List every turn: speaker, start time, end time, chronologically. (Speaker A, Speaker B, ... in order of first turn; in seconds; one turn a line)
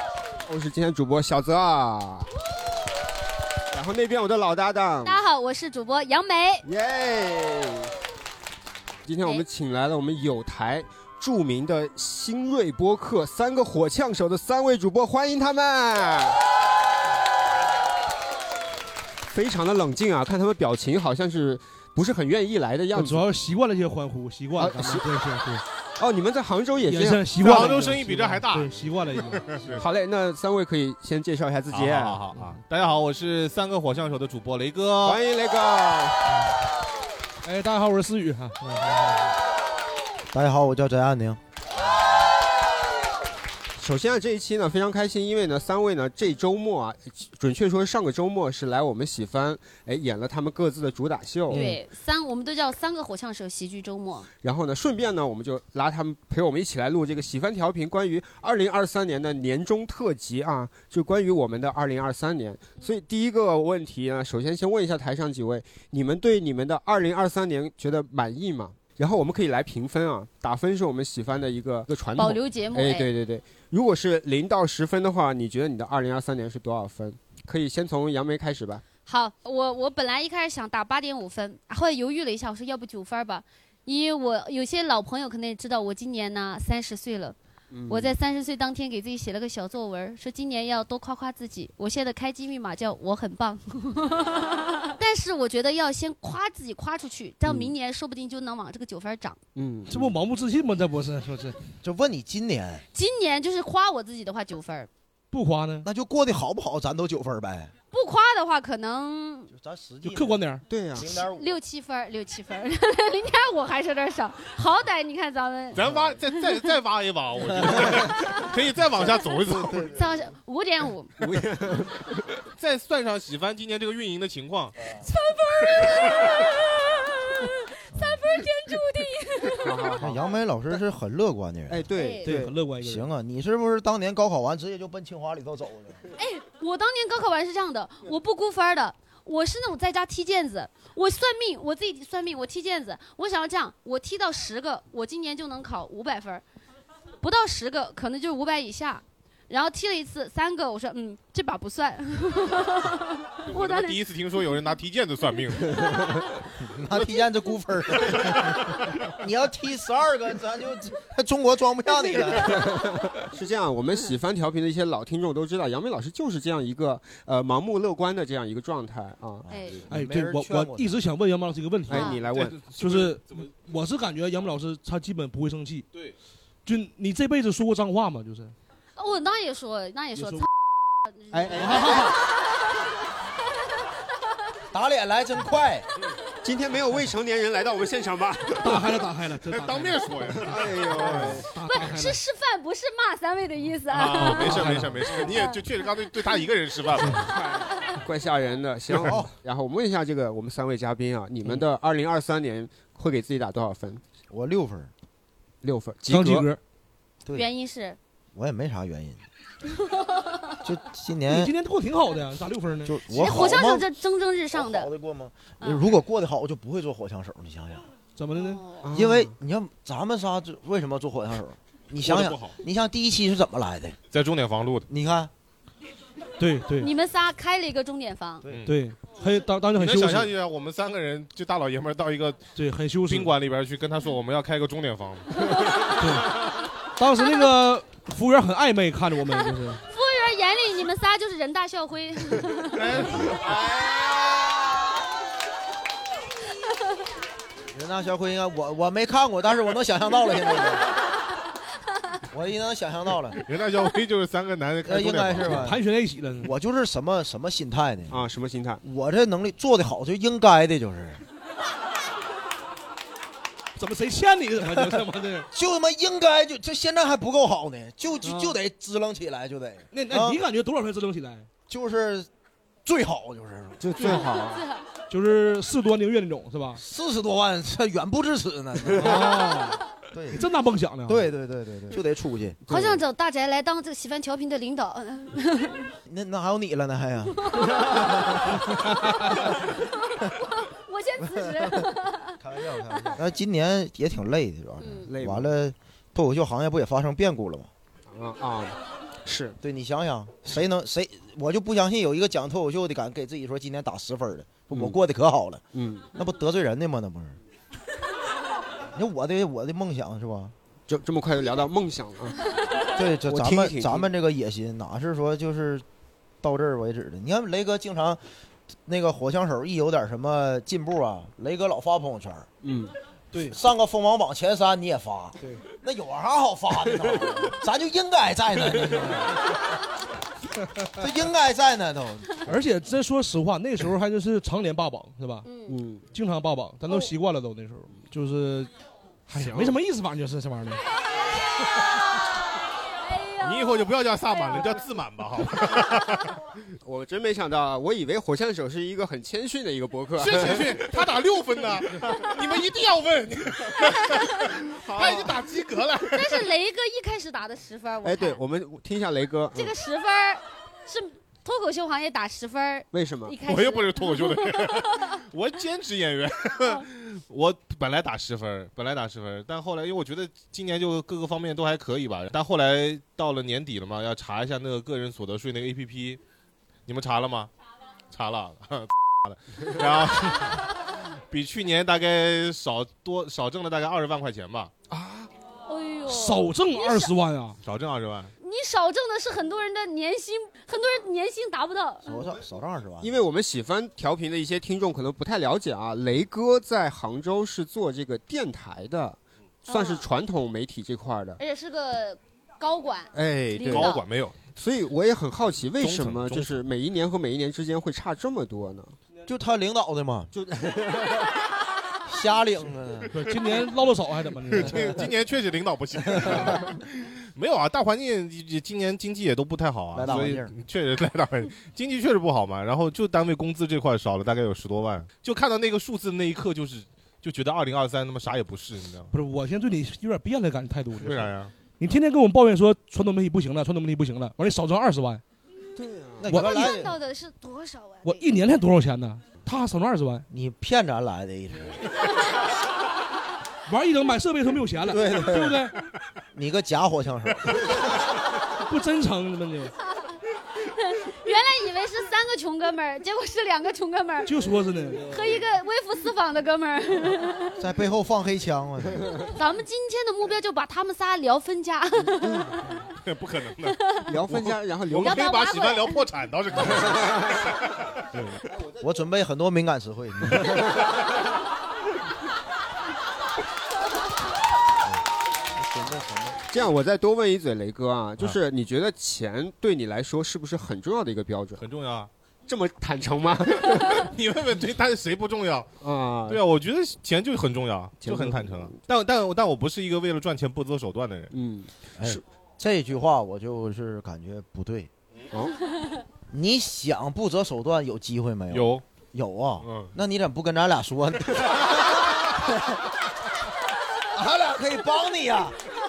Speaker A: 0.5-2.3
Speaker A: 3.7-5.2
Speaker B: 5.0-6.7
Speaker A: 6.6-7.9
Speaker A: 9.0-16.4
Speaker A: 19.3-23.3
Speaker C: 22.9-25.6
Speaker A: 24.6-25.1
Speaker A: 26.0-27.3
Speaker C: 26.8-29.6
Speaker D: 27.4-28.8
Speaker D: 29.3-29.8
Speaker A: 29.8-32.2
Speaker D: 31.7-35.2
Speaker A: 35.0-36.4
Speaker C: 37.4-39.0
Speaker E: 40.3-41.4
Speaker A: 43.8-51.7
Speaker C: 51.5-51.8
Speaker B: 51.5-54.3
Speaker A: 54.4-78.8
Speaker B: 72.2-73.1
Speaker B: 79.0-87.3
Speaker A: 87.7-88.1
Speaker B: 87.9-99.4
Speaker A: 97.5-97.7
Speaker A: 99.5-100.1
Speaker C: 99.9-101.6
Speaker E: 101.8-102.8
Speaker B: 102.9-104.9
Speaker C: 105.3-105.8
Speaker E: 105.8-107.7
Speaker B: 107.9-109.5
Speaker E: 109.5-110.4
Speaker C: 110.0-110.6
Speaker A: 110.7-111.1
Speaker E: 110.9-111.6
Speaker B: 111.0-115.8
Speaker D: 115.7-119.9
Speaker E: 119.5-119.9
Speaker B: 119.8-121.2
Speaker A: 121.2-122.1
Speaker D: 122.6-124.8
Speaker B: 125.0-126.7
Speaker B: 127.4-129.7
Speaker E: 127.9-128.2
Speaker A: 129.5-130.3
Speaker E: 130.0-131.8
Speaker A: 131.7-132.6
Speaker B: 131.9-132.3
Speaker C: 132.2-133.1
Speaker E: 132.8-136.0
Speaker B: 136.2-146.4
Speaker B: 147.2-154.0
Speaker D: 153.5-156.2
Speaker A: 155.8-156.1
Speaker E: 156.6-162.8
Speaker A: 162.4-169.8
Speaker E: 169.4-170.9
Speaker B: 169.5-169.8
Speaker C: 169.9-175.8
Speaker A: 171.8-173.2
Speaker B: 171.9-172.2
Speaker C: 176.7-178.5
Speaker B: 179.0-180.5
Speaker C: 180.2-180.4
Speaker B: 181.1-182.0
Speaker A: 181.3-182.1
Speaker C: 181.6-182.1
Speaker E: 184.7-185.9
Speaker A: 186.4-189.0
Speaker C: 188.6-192.2
Speaker D: 189.5-191.4
Speaker A: 190.4-191.5
Speaker B: 191.6-195.6
Speaker D: 193.9-197.3
Speaker C: 194.2-195.1
Speaker C: 197.0-197.2
Speaker A: 197.3-204.0
Speaker D: 198.9-199.2
Speaker E: 199.0-199.3
Speaker E: 204.3-204.9
Speaker A: 205.6-206.5
Speaker C: 206.1-206.6
Speaker B: 207.3-208.0
Speaker E: 208.3-209.2
Speaker B: 210.0-210.3
Speaker E: 210.6-211.5
Speaker C: 211.3-213.0
Speaker E: 212.8-213.8
Speaker B: 213.1-214.9
Speaker E: 214.5-217.9
Speaker B: 215.6-215.9
Speaker C: 218.2-218.6
Speaker B: 218.3-218.9
Speaker A: 218.8-219.3
Speaker E: 218.9-224.0
Speaker D: 222.0-222.6
Speaker D: 224.1-224.9
Speaker E: 224.9-225.3
Speaker C: 226.4-226.9
Speaker B: 226.8-228.4
Speaker C: 228.6-230.3
Speaker D: 229.8-232.5
Speaker C: 232.6-233.3
Speaker D: 233.1-235.9
Speaker C: 236.0-236.4
Speaker C: 237.0-239.8
Speaker B: 239.9-242.8
Speaker D: 242.7-244.3
Speaker E: 247.7-250.9
Speaker E: 252.3-253.4
Speaker D: 253.4-255.6
Speaker E: 254.8-255.8
Speaker C: 255.4-256.5
Speaker E: 256.4-258.2
Speaker A: 258.1-258.8
Speaker E: 258.8-261.2
Speaker C: 263.8-265.5
Speaker E: 265.5-270.4
Speaker C: 268.2-268.5
Speaker C: 269.9-271.5
Speaker E: 271.7-272.3
Speaker E: 272.8-273.9
Speaker A: 273.8-274.6
Speaker C: 274.0-274.2
Speaker B: 274.4-274.8
Speaker C: 275.1-276.8
Speaker E: 276.8-279.5
Speaker C: 279.0-279.8
Speaker E: 280.1-280.4
Speaker C: 280.3-281.2
Speaker E: 281.1-282.6
Speaker A: 282.7-283.0
Speaker B: 282.7-285.9
Speaker E: 286.1-288.6
Speaker B: 287.5-287.8
Speaker B: 290.2-292.4
Speaker E: 291.2-291.9
Speaker E: 292.4-297.7
Speaker B: 294.8-295.1
Speaker A: 295.1-295.5
Speaker A: 298.1-299.6
Speaker E: 299.6-305.6
Speaker A: 305.7-306.1
Speaker E: 306.1-307.4
Speaker E: 308.9-310.5
Speaker A: 310.9-314.1
Speaker E: 312.9-315.8
Speaker E: 316.4-318.2
Speaker E: 318.9-322.5
Speaker A: 322.6-322.9
Speaker E: 323.4-329.4
Speaker E: 331.0-332.5
Speaker C: 332.5-335.5
Speaker B: 335.4-335.8
Speaker A: 335.6-336.1
Speaker C: 336.1-338.7
Speaker C: 339.3-340.8
Speaker A: 339.3-339.8
Speaker B: 343.0-344.8
Speaker D: 343.4-346.3
Speaker A: 346.8-351.1
Speaker D: 350.2-356.4
Speaker A: 354.8-355.3
Speaker B: 356.1-358.4
Speaker A: 358.0-359.8
Speaker B: 359.5-365.1
Speaker A: 362.9-363.4
Speaker D: 363.4-376.2
Speaker D: 376.9-377.5
Speaker D: 378.1-380.7
Speaker D: 381.3-384.7
Speaker A: 384.9-385.3
Speaker B: 385.7-387.1
Speaker C: 386.1-387.6
Speaker D: 387.6-388.3
Speaker B: 388.4-392.2
Speaker E: 392.1-393.1
Speaker A: 393.0-401.4
Speaker B: 399.7-400.1
Speaker B: 401.4-404.0
Speaker A: 403.1-403.9
Speaker D: 403.6-404.4
Speaker A: 404.5-408.9
Speaker D: 405.8-406.6
Speaker E: 409.2-410.3
Speaker A: 410.3-411.3
Speaker E: 412.1-413.1
Speaker C: 413.1-414.9
Speaker D: 414.5-429.1
Speaker E: 419.9-420.5
Speaker C: 429.1-435.2
Speaker D: 431.0-431.5
Speaker A: 435.8-436.3
Speaker E: 436.2-436.9
Speaker B: 436.3-438.3
Speaker C: 436.3-436.6
Speaker C: 438.0-440.2
Speaker E: 440.3-441.9
Speaker C: 443.7-445.7
Speaker E: 444.9-445.6
Speaker E: 446.3-447.8
Speaker C: 448.6-449.7
Speaker B: 450.7-454.3
Speaker C: 454.2-455.0
Speaker B: 455.0-457.6
Speaker E: 457.6-459.1
Speaker B: 459.3-462.4
Speaker A: 462.2-462.5
Speaker D: 463.0-467.7
Speaker A: 464.1-465.3
Speaker B: 464.9-466.0
Speaker A: 466.6-467.5
Speaker E: 468.8-470.6
Speaker E: 475.5-476.4
Speaker A: 476.5-481.6
Speaker D: 481.6-482.1
Speaker A: 482.5-484.1
Speaker D: 484.0-485.7
Speaker A: 485.8-486.4
Speaker D: 486.3-491.3
Speaker A: 488.0-488.8
Speaker A: 491.3-492.2
Speaker E: 492.0-494.9
Speaker A: 495.3-495.6
Speaker E: 496.3-502.9
Speaker D: 498.5-498.8
Speaker D: 499.6-499.9
Speaker E: 504.1-505.6